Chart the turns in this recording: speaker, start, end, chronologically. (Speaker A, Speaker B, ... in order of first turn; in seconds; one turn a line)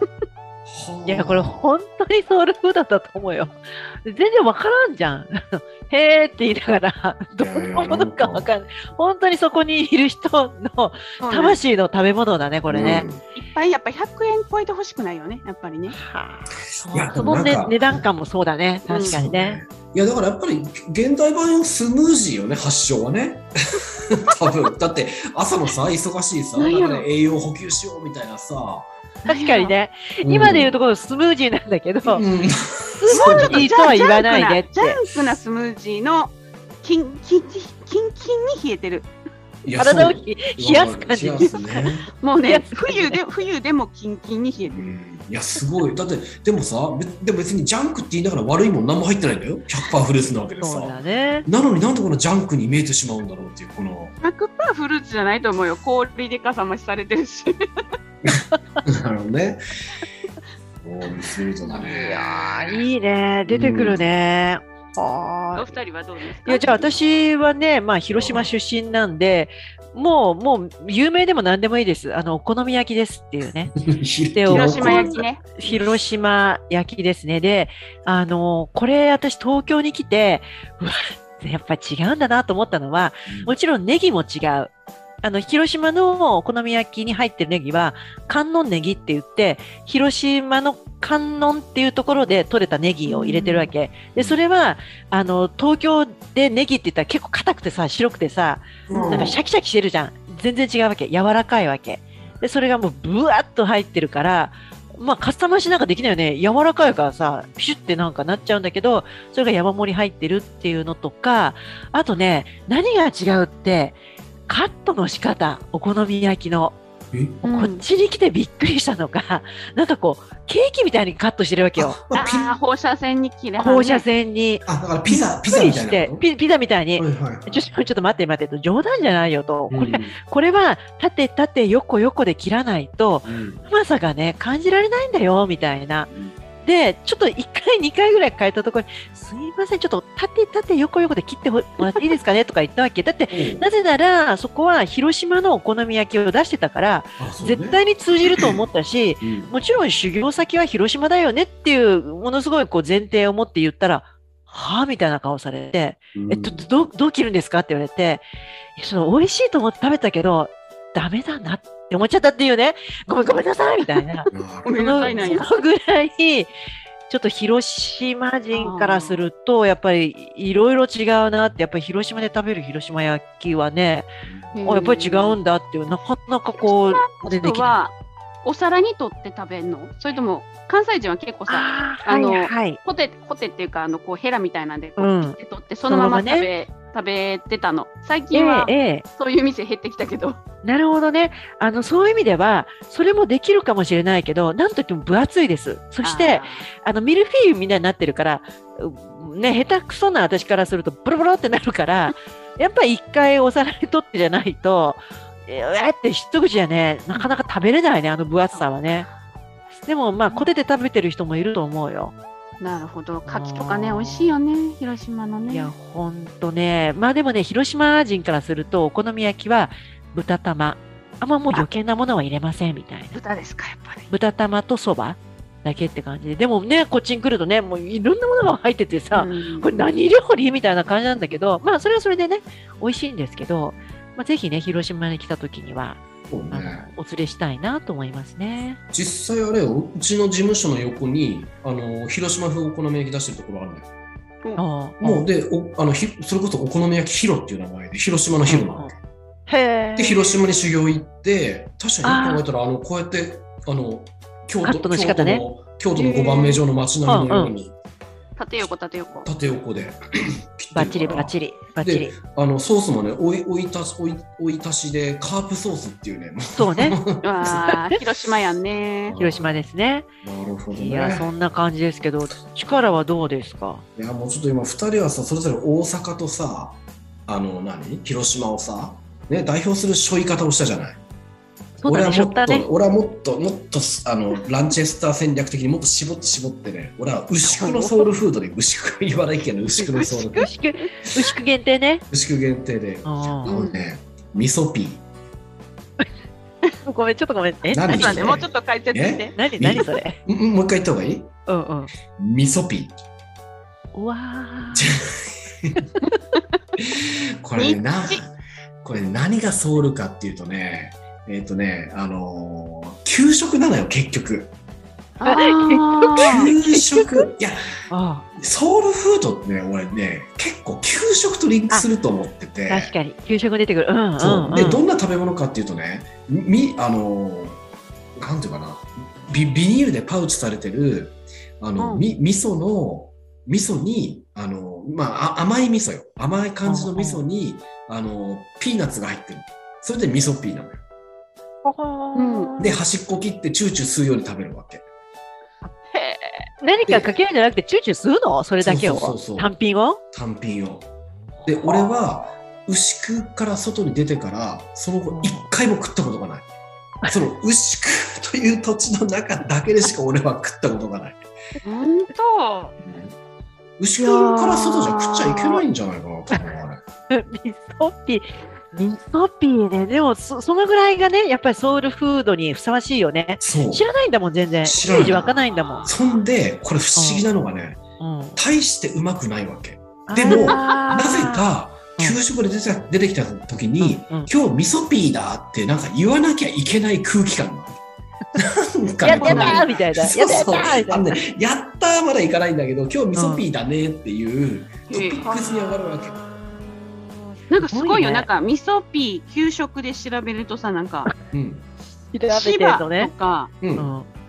Speaker A: 0.7-1.7
Speaker B: 1.1-13.1
Speaker A: 7.4-8.5
Speaker C: 11.2-11.6
Speaker A: 12.7-13.2
Speaker C: 13.3-16.0
Speaker B: 15.9-19.6
Speaker A: 16.8-18.0
Speaker C: 18.9-19.2
Speaker A: 18.9-23.5
Speaker A: 24.1-28.9
Speaker C: 26.6-27.1
Speaker B: 29.2-32.3
Speaker C: 29.3-29.8
Speaker A: 30.2-30.8
Speaker A: 32.1-33.7
Speaker B: 33.0-35.0
Speaker C: 33.1-39.1
Speaker A: 39.6-42.1
Speaker B: 39.8-43.2
Speaker C: 42.2-44.8
Speaker A: 44.7-54.1
Speaker B: 50.6-51.5
Speaker C: 54.2-57.5
Speaker A: 58.9-59.6
Speaker A: 60.8-62.7
Speaker B: 61.8-65.7
Speaker A: 63.5-64.0
Speaker C: 65.5-66.8
Speaker B: 66.5-73.8
Speaker A: 68.1-68.5
Speaker A: 73.8-76.0
Speaker B: 74.3-84.7
Speaker C: 74.5-75.4
Speaker B: 85.2-116.8
Speaker C: 93.1-93.7
Speaker A: 98.9-99.4
Speaker C: 98.9-99.2
Speaker A: 117.1-117.4
Speaker C: 117.4-117.8
Speaker B: 117.5-122.0
Speaker A: 121.8-122.5
Speaker C: 122.1-124.0
Speaker B: 123.6-136.1
Speaker A: 124.7-126.2
Speaker A: 127.0-127.7
Speaker A: 129.7-130.1
Speaker A: 133.2-133.6
Speaker A: 136.1-136.3
Speaker B: 136.6-158.2
Speaker A: 143.3-143.7
Speaker A: 147.2-147.8
Speaker A: 149.2-149.5
Speaker A: 156.1-156.6
Speaker B: 158.8-166.5
Speaker A: 164.3-165.4
Speaker C: 164.6-165.6
Speaker B: 167.1-174.1
Speaker C: 168.5-169.2
Speaker C: 174.5-175.4
Speaker B: 174.7-177.8
Speaker C: 176.6-190.4
Speaker B: 181.5-182.8
Speaker B: 185.0-186.5
Speaker B: 188.3-189.1
Speaker B: 190.6-209.1
Speaker C: 196.0-196.7
Speaker B: 209.8-212.1
Speaker C: 212.6-215.7
Speaker B: 213.3-214.4
Speaker B: 215.5-223.2
Speaker C: 223.1-224.1
Speaker B: 224.1-238.8
Speaker C: 229.1-229.7
Speaker A: 236.3-236.9
Speaker A: 238.9-243.9
Speaker B: 244.6-245.3
Speaker A: 245.0-249.0
Speaker B: 248.5-248.9
Speaker B: 249.5-250.2
Speaker A: 250.0-257.7
Speaker B: 252.0-252.4
Speaker B: 254.6-255.4
Speaker C: 255.9-256.6
Speaker B: 257.1-257.5
Speaker C: 258.4-259.3
Speaker A: 259.2-267.7
Speaker B: 260.7-262.1
Speaker B: 266.6-267.0
Speaker C: 267.2-269.2
Speaker A: 269.1-269.6
Speaker B: 269.2-270.1
Speaker A: 270.2-271.3
Speaker B: 270.7-273.8
Speaker A: 274.0-281.0
Speaker B: 281.8-282.7
Speaker A: 281.8-290.5
Speaker B: 287.4-288.1
Speaker B: 289.8-292.1
Speaker C: 290.0-290.9
Speaker A: 292.1-295.0
Speaker B: 293.1-293.6
Speaker C: 293.4-293.8
Speaker B: 296.9-298.2
Speaker A: 297.7-301.3
Speaker C: 297.9-299.4
Speaker B: 299.4-300.2
Speaker B: 301.5-301.9
Speaker A: 302.2-302.9
Speaker B: 303.9-304.9
Speaker A: 304.7-305.7
Speaker A: 306.8-314.5
Speaker C: 307.6-308.2
Speaker C: 315.2-316.5
Speaker B: 315.3-317.3
Speaker A: 316.2-317.6
Speaker B: 317.9-318.3
Speaker A: 318.4-322.9
Speaker B: 322.7-324.8
Speaker A: 324.2-327.6
Speaker A: 328.2-340.8
Speaker B: 336.6-337.2
Speaker B: 341.6-342.8
Speaker C: 342.1-342.5
Speaker A: 342.6-344.9
Speaker C: 345.9-346.4
Speaker B: 346.6-350.0
Speaker A: 346.9-347.1
Speaker A: 348.6-349.6
Speaker A: 350.1-350.9
Speaker B: 351.4-351.9
Speaker A: 351.5-356.5
Speaker B: 355.1-355.5
Speaker A: 357.1-361.2
Speaker C: 361.6-362.7
Speaker A: 362.8-363.1
Speaker A: 363.8-366.8
Speaker B: 364.0-365.6
Speaker B: 367.1-375.9
Speaker A: 373.4-373.9
Speaker A: 374.6-377.8
Speaker B: 376.9-377.3
Speaker B: 378.0-378.4
Speaker A: 378.4-387.8
Speaker B: 380.1-381.5
Speaker C: 380.2-380.9
Speaker B: 383.8-384.3
Speaker A: 388.4-396.1
Speaker B: 389.0-391.2
Speaker C: 389.1-389.8
Speaker B: 393.1-393.5
Speaker C: 394.9-395.6
Speaker B: 395.8-398.3
Speaker C: 397.5-401.1
Speaker A: 401.3-401.6
Speaker B: 402.1-403.1
Speaker C: 402.3-403.5
Speaker A: 403.6-403.9
Speaker B: 403.8-404.1